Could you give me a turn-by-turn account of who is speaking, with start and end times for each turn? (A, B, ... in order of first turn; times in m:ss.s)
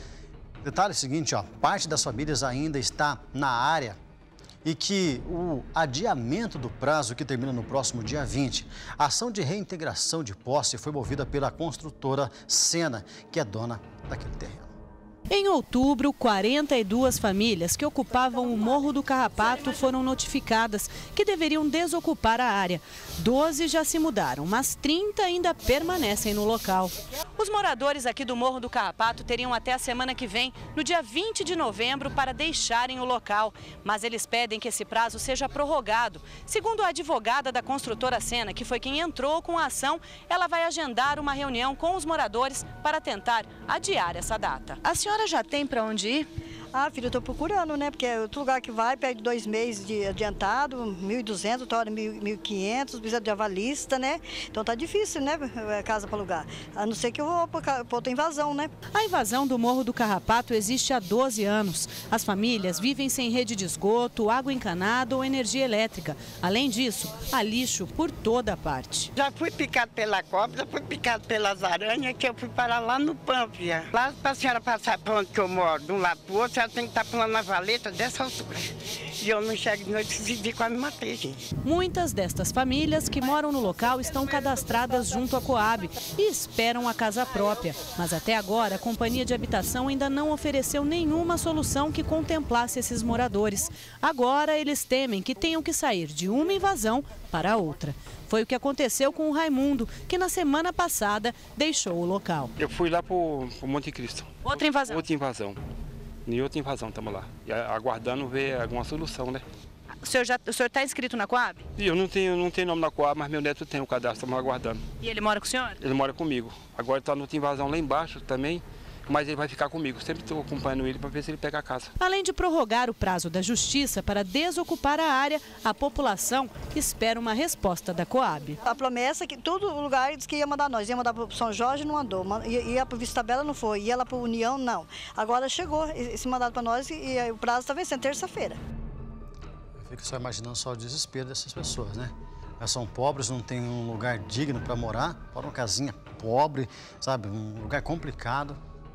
0:00.6-0:04.0 A
0:04.6-0:14.7 A
0:15.3-0:46.3 B
0:46.7-0:58.7 C
0:58.9-1:09.1 B
1:09.2-1:21.4 D
1:21.6-1:42.5 B
1:42.6-1:45.6 E
1:44.4-1:45.0 B
1:46.3-1:49.4 E
1:50.0-1:51.6 B
1:51.8-1:54.9 E
1:55.0-1:55.8 B
1:55.8-2:01.9 E
2:02.0-2:08.6 B
2:08.6-2:18.6 C
2:19.8-2:28.6 A